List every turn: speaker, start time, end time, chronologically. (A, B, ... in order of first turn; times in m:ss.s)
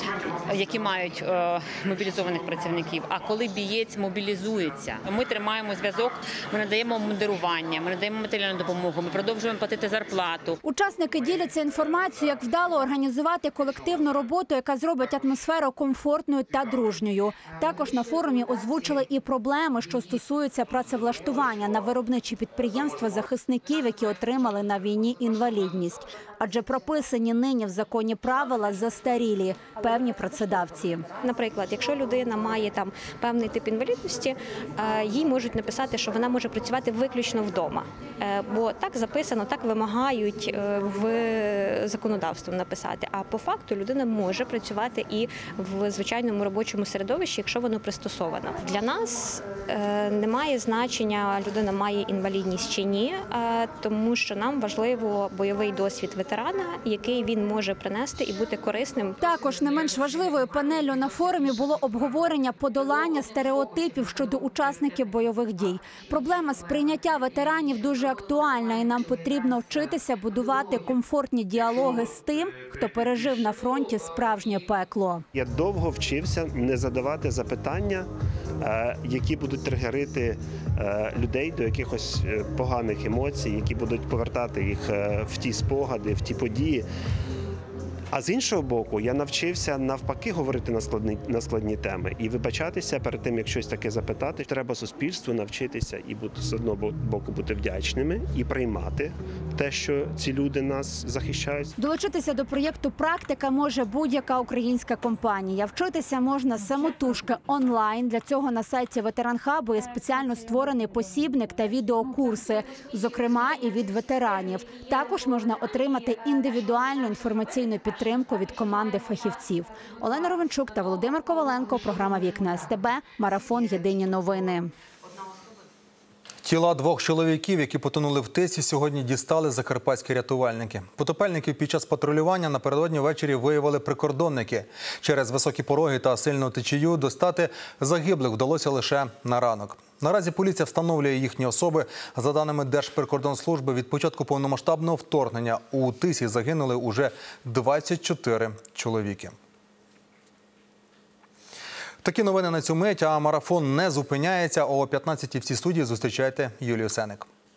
0:00.3-0:10.6 A
0:10.6-0:31.0 B
0:31.2-0:59.2 C
0:59.2-1:15.2 B
1:15.3-1:18.1 D
1:18.6-1:26.9 D
1:28.1-1:41.7 D
1:41.8-2:04.7 B
2:06.4-2:29.4 E
2:32.0-2:37.3 E